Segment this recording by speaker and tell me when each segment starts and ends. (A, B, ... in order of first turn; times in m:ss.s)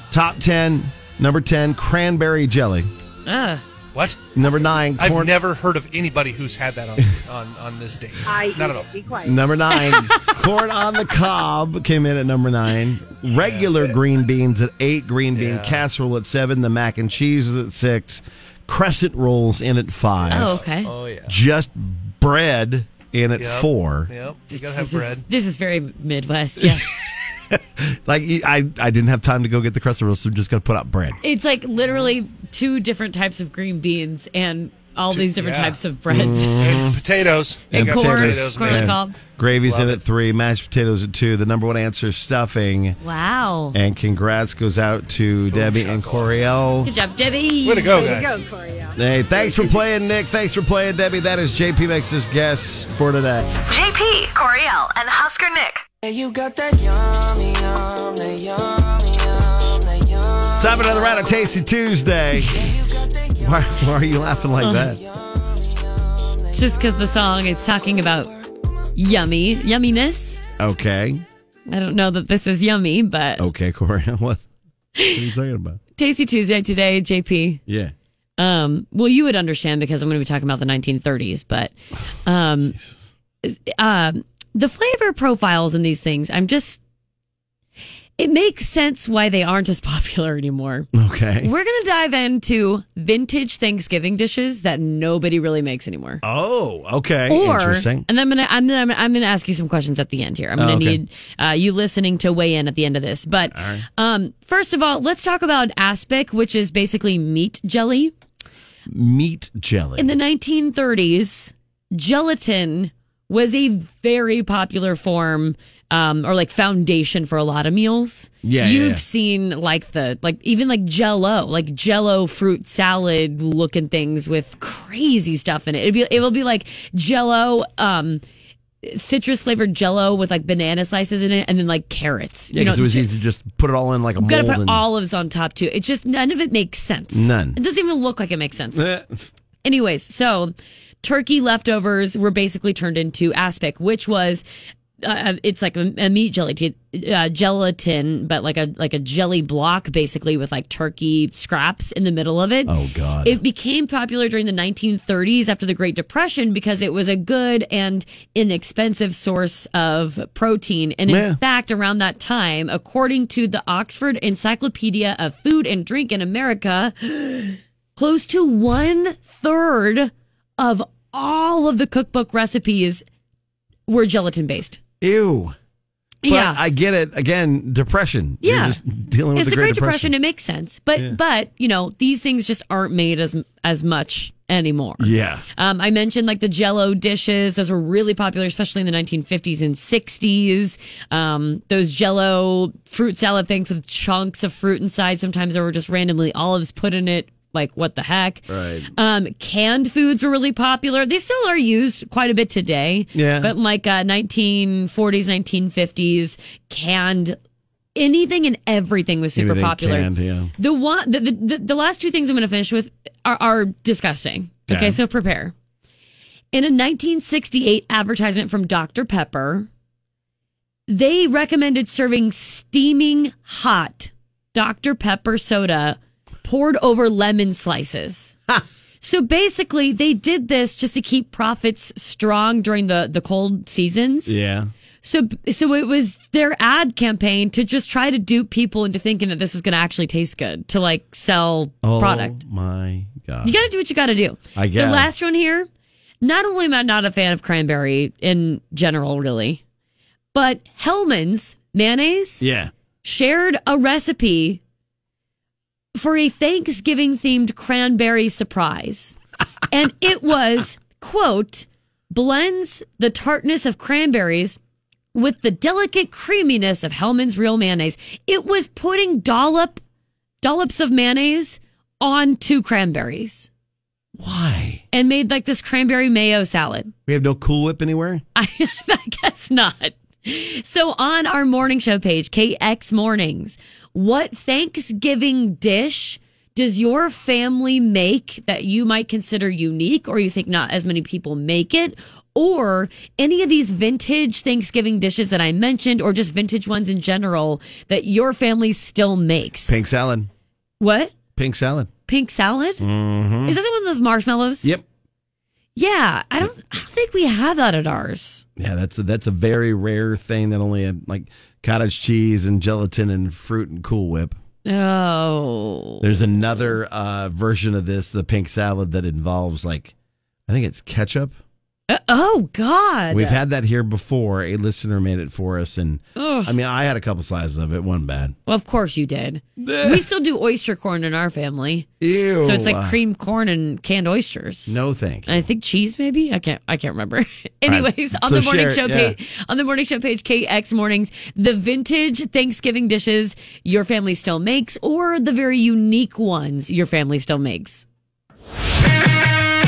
0:00.1-0:02.9 A
0:03.3-0:03.6 B
0:03.9-0:04.2 C
0:04.4-0:05.4 A
0:05.0-0:08.9 C
0:08.3-0:09.4 D
0:09.2-0:20.6 A
0:09.7-0:10.4 B
0:13.3-0:13.8 C
0:15.3-0:15.8 C
0:20.3-0:21.3 C
0:20.3-0:20.9 B
0:21.2-0:24.1 A
0:23.4-0:25.3 C
0:24.5-0:26.9 B
0:26.6-0:31.2 A
0:31.2-0:36.6 B
0:35.1-0:35.8 C
0:36.1-0:37.0 A
0:36.6-0:39.0 C
0:37.7-0:39.2 B
0:37.7-0:43.0 A
0:39.6-0:40.0 C
0:43.0-0:43.8 B
0:43.7-0:46.9 A
0:45.5-0:46.3 C
0:46.8-0:48.2 B
0:47.6-0:48.4 C
0:47.9-0:49.8 D
0:49.0-0:53.5 A
0:53.6-0:55.8 E
1:00.5-1:02.6 A
1:03.4-1:05.0 A
1:04.6-1:05.0 B
1:06.5-1:08.3 B
1:09.0-1:10.4 B
1:10.6-1:11.2 A
1:11.7-1:13.5 B
1:13.4-1:14.4 A
1:15.0-1:15.3 B
1:15.1-1:15.8 A
1:16.0-1:17.6 B
1:17.7-1:17.9 A
1:18.4-1:22.8 B
1:22.7-1:23.1 A
1:23.4-1:26.8 B
1:28.2-1:36.2 B
1:30.9-1:31.5 A
1:36.2-1:38.1 A
1:37.3-1:48.1 B
1:40.6-1:41.0 A
1:43.5-1:43.8 A
1:48.9-1:50.2 A
1:50.0-2:08.2 B
1:58.4-1:59.0 A
2:08.8-2:13.1 B
2:12.5-2:14.9 A
2:14.2-2:18.8 B
2:17.1-2:17.6 A
2:18.7-2:19.2 A
2:19.6-2:24.4 B
2:25.0-2:53.0 B
2:32.7-2:33.4 A
2:41.1-2:41.4 A
2:53.9-2:54.8 B
2:55.0-2:55.6 A
2:56.2-2:56.6 B
2:56.3-3:00.1 A
2:58.4-2:58.8 B
2:59.4-3:27.4 B
3:05.0-3:05.4 A
3:18.5-3:18.9 A
3:23.1-3:23.5 A
3:28.0-3:35.5 B
3:29.4-3:30.5 A
3:34.7-3:35.0 A
3:36.5-3:39.7 B
3:40.9-3:48.4 B
3:49.0-3:54.4 B
3:54.3-3:54.7 A
3:55.0-4:02.4 B
4:01.8-4:03.6 A
4:03.4-4:05.7 B
4:04.6-4:05.1 A
4:06.2-4:09.6 B
4:10.3-4:12.5 B
4:12.4-4:12.7 A
4:13.0-4:14.6 B
4:16.0-4:19.2 B
4:19.7-4:24.6 B
4:25.1-4:29.8 B
4:30.4-4:33.5 B
4:34.2-4:34.8 A
4:34.9-4:36.9 B
4:37.1-4:38.2 A
4:38.4-4:59.8 B
4:59.7-5:00.3 A
5:00.8-5:01.1 B
5:01.4-5:01.9 A
5:02.1-5:02.9 B
5:02.8-5:03.6 A
5:03.4-5:04.7 B
5:05.8-5:08.4 B
5:08.6-5:14.4 A
5:14.6-5:16.7 B
5:16.0-5:19.9 A
5:20.5-5:21.4 A
5:21.9-5:23.4 B
5:23.1-5:28.4 A
5:26.2-5:26.5 B
5:28.5-5:47.9 B
5:29.6-5:30.1 A
5:32.0-5:33.0 A
5:34.7-5:35.5 A
5:37.7-5:39.2 A